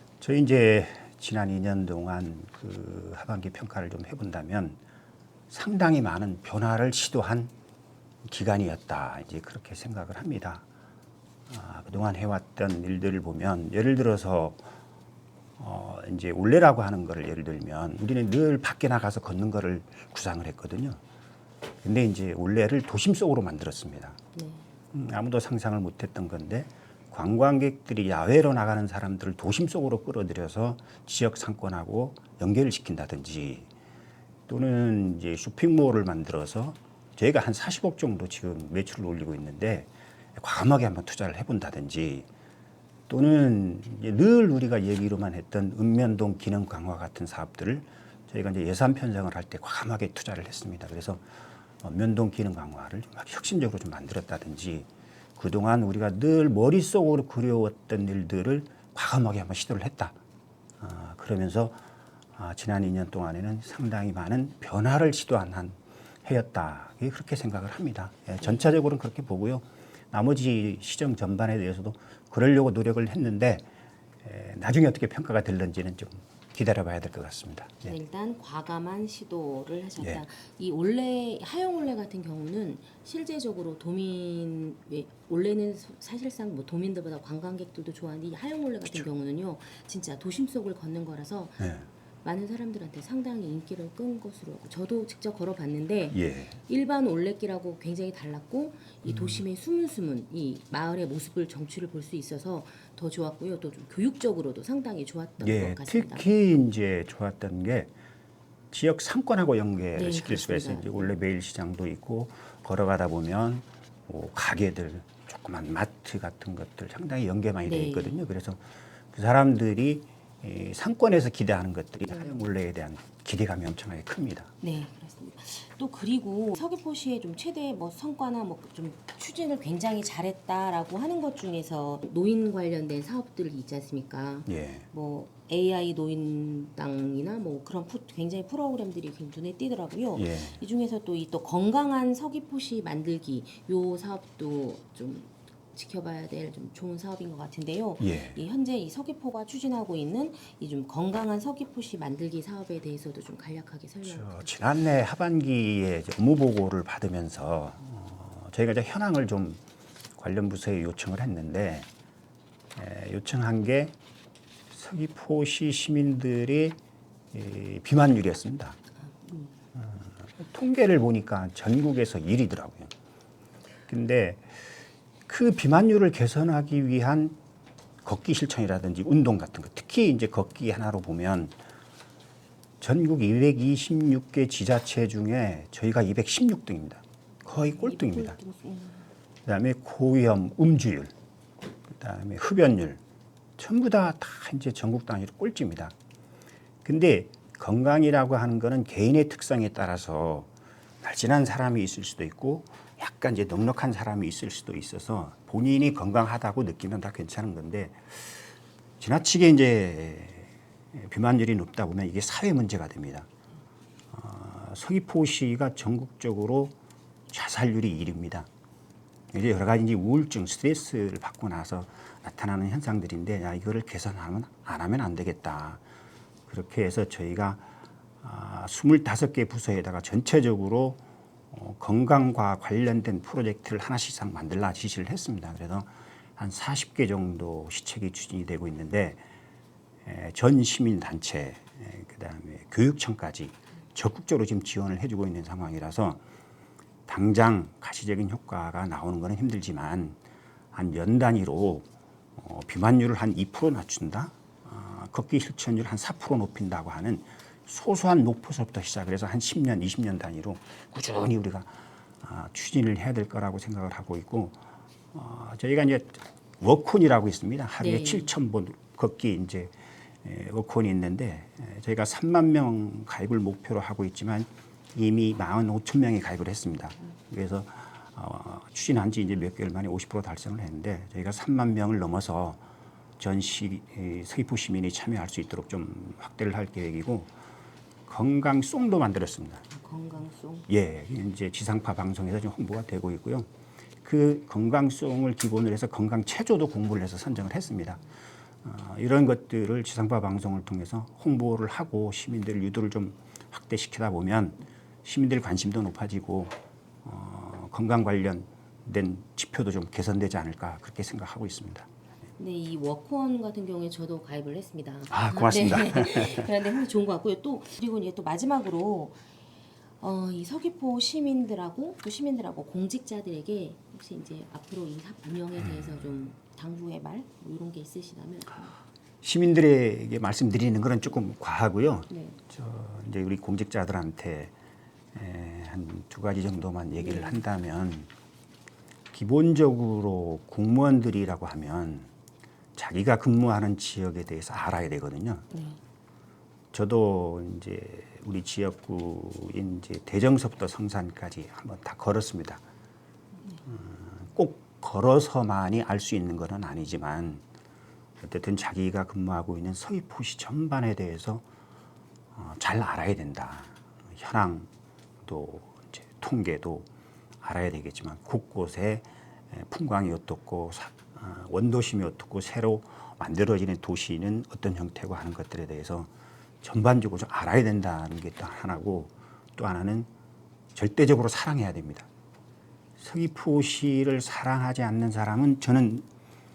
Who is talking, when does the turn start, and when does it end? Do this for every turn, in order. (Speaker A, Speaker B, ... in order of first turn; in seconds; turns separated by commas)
Speaker A: 0.2-4.8, Speaker A: 5.5-7.5, Speaker A: 8.2-10.6, Speaker A: 11.5-14.6, Speaker A: 15.6-21.0, Speaker A: 21.8-24.2, Speaker B: 24.3-24.7, Speaker A: 24.9-33.7, Speaker A: 34.5-42.3, Speaker A: 43.1-51.2, Speaker A: 51.8-60.1, Speaker A: 60.8-61.8, Speaker A: 62.3-73.7, Speaker A: 74.2-77.9, Speaker B: 77.8-91.7, Speaker A: 91.6-91.9, Speaker B: 92.2-106.2, Speaker A: 96.1-96.5, Speaker A: 99.0-99.4, Speaker A: 105.4-107.9, Speaker A: 108.7-124.5, Speaker B: 109.9-111.1, Speaker B: 117.6-118.2, Speaker B: 124.6-154.5, Speaker A: 134.5-134.8, Speaker A: 140.2-140.6, Speaker A: 148.0-148.4, Speaker A: 154.1-159.6, Speaker A: 160.2-161.9, Speaker A: 162.7-163.9, Speaker A: 164.7-166.8, Speaker A: 167.3-168.8, Speaker B: 169.2-169.6, Speaker A: 169.7-172.9, Speaker A: 173.9-174.6, Speaker A: 175.2-177.4, Speaker A: 178.0-181.6, Speaker A: 182.8-188.4, Speaker B: 187.5-189.1, Speaker A: 189.4-191.1, Speaker A: 191.9-193.0, Speaker A: 193.6-195.9, Speaker A: 196.8-200.5, Speaker A: 201.0-208.4, Speaker A: 209.0-213.3, Speaker A: 214.1-216.7, Speaker A: 217.3-218.5, Speaker A: 219.3-225.8, Speaker A: 226.5-227.7, Speaker A: 228.2-239.2, Speaker A: 240.0-246.2, Speaker A: 247.1-250.2, Speaker A: 250.7-264.6, Speaker A: 265.1-282.6, Speaker B: 267.8-268.3, Speaker A: 283.2-287.3, Speaker A: 288.1-289.6, Speaker B: 289.7-290.7, Speaker A: 290.7-293.5, Speaker A: 294.0-298.0, Speaker A: 298.6-311.9, Speaker B: 312.4-319.2, Speaker A: 315.1-316.5, Speaker B: 320.0-328.8, Speaker A: 329.2-334.5, Speaker B: 332.1-332.4, Speaker A: 335.1-338.1, Speaker B: 337.0-337.4, Speaker A: 339.1-342.1, Speaker A: 342.8-345.4, Speaker B: 345.5-345.8, Speaker A: 346.7-352.6, Speaker A: 353.6-357.4, Speaker A: 358.2-361.4, Speaker A: 362.3-364.7, Speaker A: 365.2-366.9, Speaker A: 367.4-376.1, Speaker A: 376.6-380.1, Speaker A: 380.7-382.1, Speaker A: 383.0-386.1